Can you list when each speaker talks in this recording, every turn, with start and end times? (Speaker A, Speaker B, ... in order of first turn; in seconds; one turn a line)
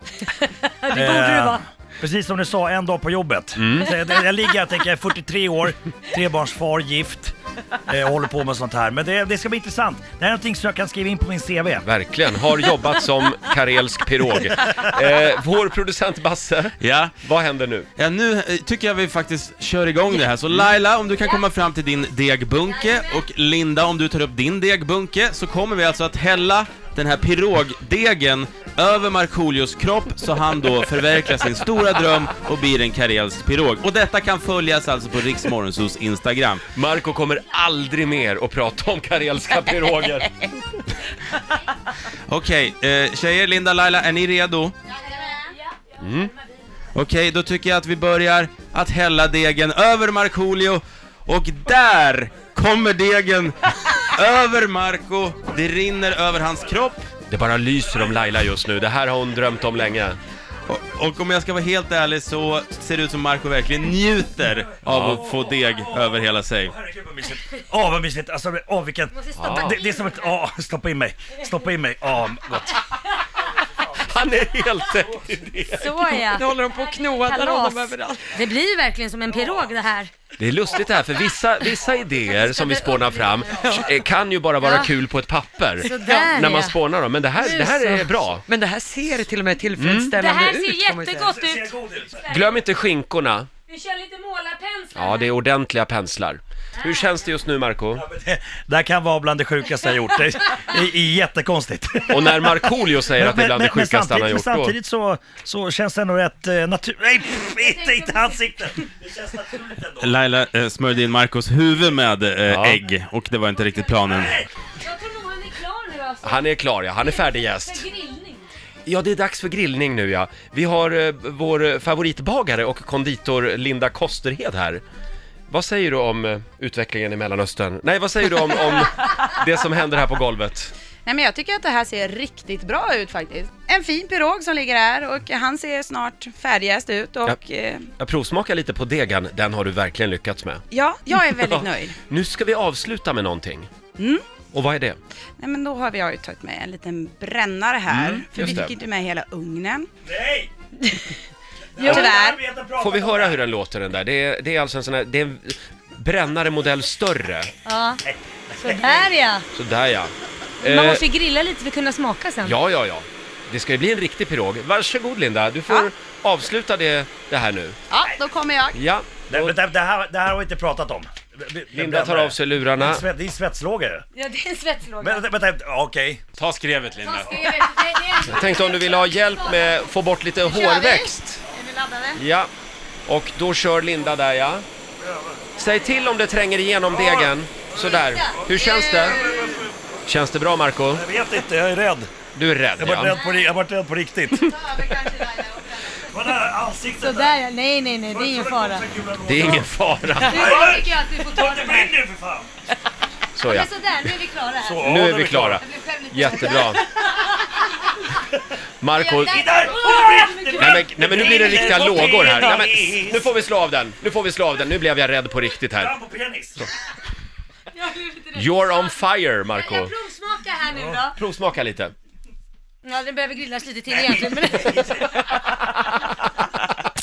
Speaker A: 0.4-1.6
Speaker B: 0.9-7.3
Speaker C: 3.6-3.9
Speaker B: 7.9-11.9
Speaker C: 11.9-17.9
Speaker D: 16.8-17.1
Speaker D: 18.0-36.6
Speaker C: 36.7-40.5
Speaker D: 42.3-44.7
Speaker A: 45.2-45.8
Speaker C: 46.0-46.3
Speaker D: 46.9-57.1
Speaker C: 57.3-60.2
Speaker D: 60.7-66.7
Speaker C: 64.9-65.2
Speaker B: 65.0-72.8
Speaker A: 69.1-70.3
Speaker C: 69.3-69.8
Speaker B: 73.6-75.3
Speaker C: 74.0-76.0
Speaker A: 75.7-80.1
Speaker E: 76.2-78.3
Speaker B: 79.3-79.6
Speaker C: 80.4-88.5
Speaker A: 82.4-83.7
Speaker E: 83.6-84.0
Speaker A: 84.6-84.9
Speaker A: 85.8-86.8
Speaker E: 86.0-86.3
Speaker A: 87.4-87.8
Speaker E: 87.8-91.4
Speaker C: 89.7-90.2
Speaker A: 90.1-92.6
Speaker B: 91.2-92.2
Speaker C: 92.3-93.5
Speaker A: 93.7-95.3
Speaker C: 95.0-98.0
Speaker B: 97.9-110.2
Speaker C: 102.1-104.7
Speaker A: 107.6-108.4
Speaker D: 110.0-114.4
Speaker C: 112.5-112.8
Speaker B: 114.1-114.5
Speaker A: 114.8-118.5
Speaker C: 116.2-117.8
Speaker C: 118.9-124.8
Speaker C: 125.5-130.7
Speaker F: 131.1-137.9
Speaker C: 138.0-140.6
Speaker F: 140.7-142.0
Speaker C: 141.2-143.7
Speaker F: 144.0-144.2
Speaker C: 144.5-145.0
Speaker F: 145.4-149.9
Speaker C: 147.9-148.8
Speaker B: 150.1-150.5
Speaker B: 151.8-153.4
Speaker A: 151.8-152.1
Speaker F: 151.8-152.4
Speaker C: 152.8-157.5
Speaker A: 157.7-158.0
Speaker B: 158.1-159.1
Speaker A: 158.6-159.4
Speaker C: 159.5-161.0
Speaker A: 160.6-162.6
Speaker C: 162.4-167.8
Speaker F: 167.9-168.8
Speaker C: 168.7-169.5
Speaker B: 169.3-174.1
Speaker C: 171.7-173.1
Speaker A: 174.2-175.2
Speaker B: 175.0-176.2
Speaker D: 176.4-177.6
Speaker A: 177.0-182.2
Speaker C: 178.2-181.4
Speaker C: 182.2-182.5
Speaker C: 183.1-184.7
Speaker B: 185.0-185.4
Speaker C: 185.6-189.3
Speaker B: 186.9-189.8
Speaker A: 187.9-189.3
Speaker C: 190.1-191.0
Speaker B: 190.9-192.1
Speaker C: 192.3-193.2
Speaker B: 192.8-194.7
Speaker A: 194.4-196.0
Speaker B: 196.0-197.4
Speaker A: 197.0-198.8
Speaker B: 198.1-202.5
Speaker C: 199.2-200.8
Speaker A: 200.2-201.9
Speaker C: 203.3-203.7
Speaker A: 203.5-205.0
Speaker B: 204.6-205.7
Speaker C: 204.8-206.8
Speaker A: 205.6-207.9
Speaker C: 208.8-209.7
Speaker A: 208.9-211.9
Speaker B: 209.2-213.4
Speaker C: 210.6-215.9
Speaker B: 215.7-216.7
Speaker A: 217.7-219.0
Speaker C: 218.3-219.9
Speaker A: 219.5-221.2
Speaker C: 221.1-221.9
Speaker A: 222.8-225.3
Speaker B: 224.0-225.2